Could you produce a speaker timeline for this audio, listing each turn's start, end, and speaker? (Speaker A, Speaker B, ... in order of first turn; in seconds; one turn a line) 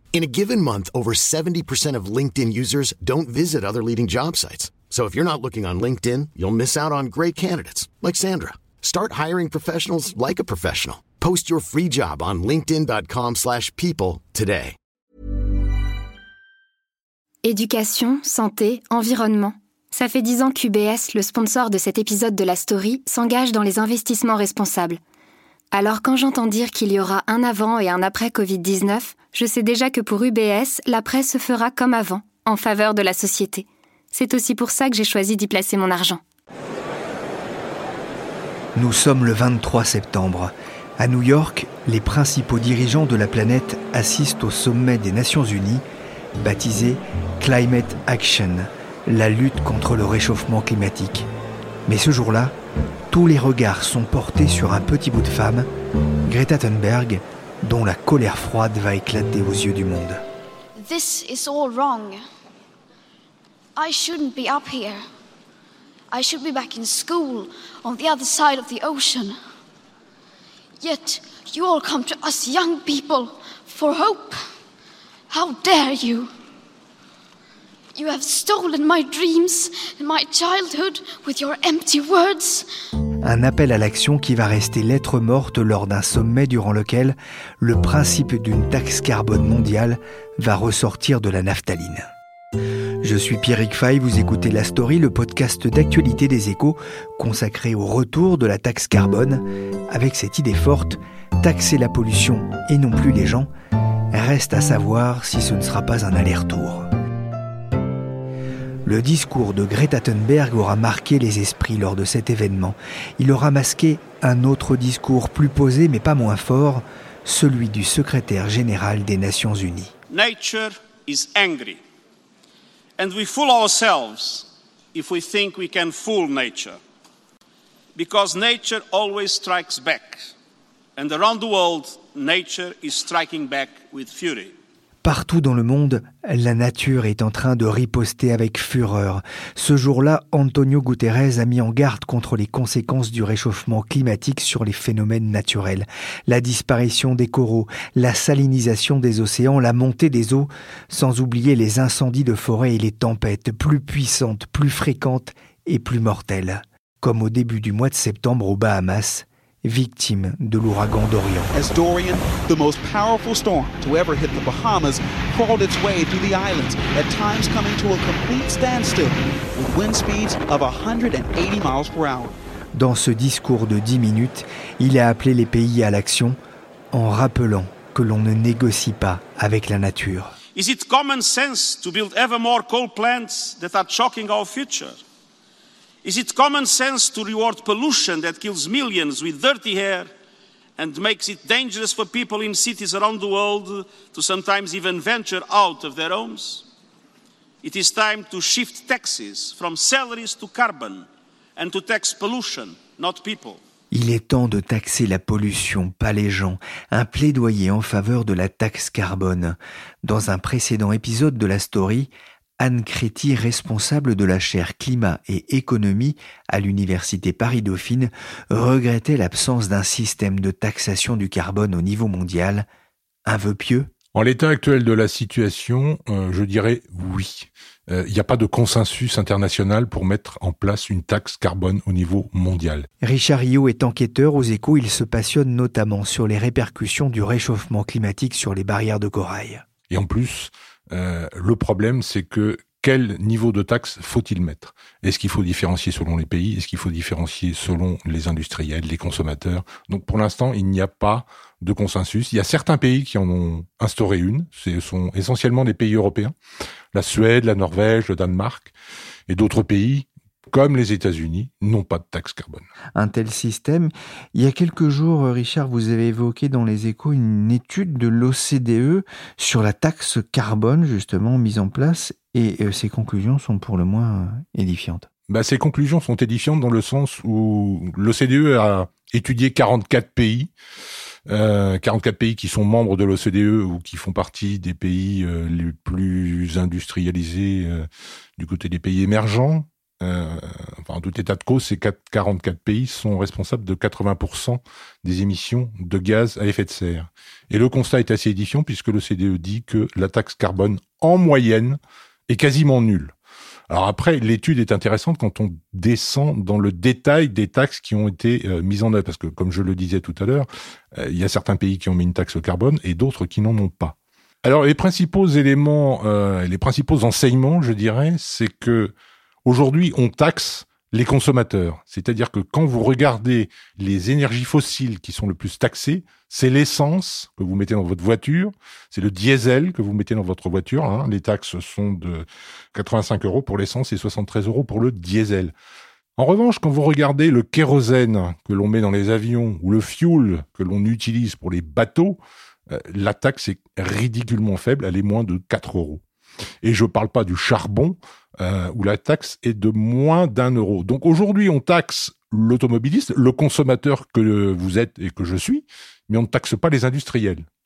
Speaker A: 0.1-14.8
Speaker B: 17.4-25.0
Speaker B: 25.7-36.2
Speaker C: 38.8-45.8
Speaker C: 46.4-51.3
Speaker C: 51.9-52.6
Speaker C: 53.1-55.7
Speaker C: 56.3-60.2
Speaker D: 60.8-62.2
Speaker D: 63.8-65.0
Speaker D: 66.1-69.4
Speaker D: 70.8-74.4
Speaker D: 75.3-76.3
Speaker D: 78.0-82.7
Speaker C: 83.2-92.1
Speaker C: 93.0-103.5
Speaker C: 104.1-106.9
Speaker C: 108.8-119.9
Speaker E: 120.1-121.8
Speaker E: 123.0-126.8
Speaker E: 128.0-130.3
Speaker E: 131.0-134.6
Speaker C: 135.0-161.5
Speaker F: 161.5-172.4
Speaker C: 172.7-176.4
Speaker C: 176.9-180.3
Speaker E: 180.6-185.0
Speaker E: 186.0-190.1
Speaker E: 190.8-196.7
Speaker E: 197.6-203.6
Speaker C: 203.9-222.7
Speaker C: 223.3-223.9
Speaker G: 224.2-232.9
Speaker C: 233.0-239.6
Speaker G: 239.9-256.3
Speaker G: 256.9-258.7
Speaker G: 259.3-262.7
Speaker C: 263.0-275.1
Speaker G: 275.3-280.5
Speaker G: 281.3-303.1
Speaker G: 303.7-318.9
Speaker G: 319.4-335.5
Speaker G: 336.2-346.0
Speaker G: 346.6-357.5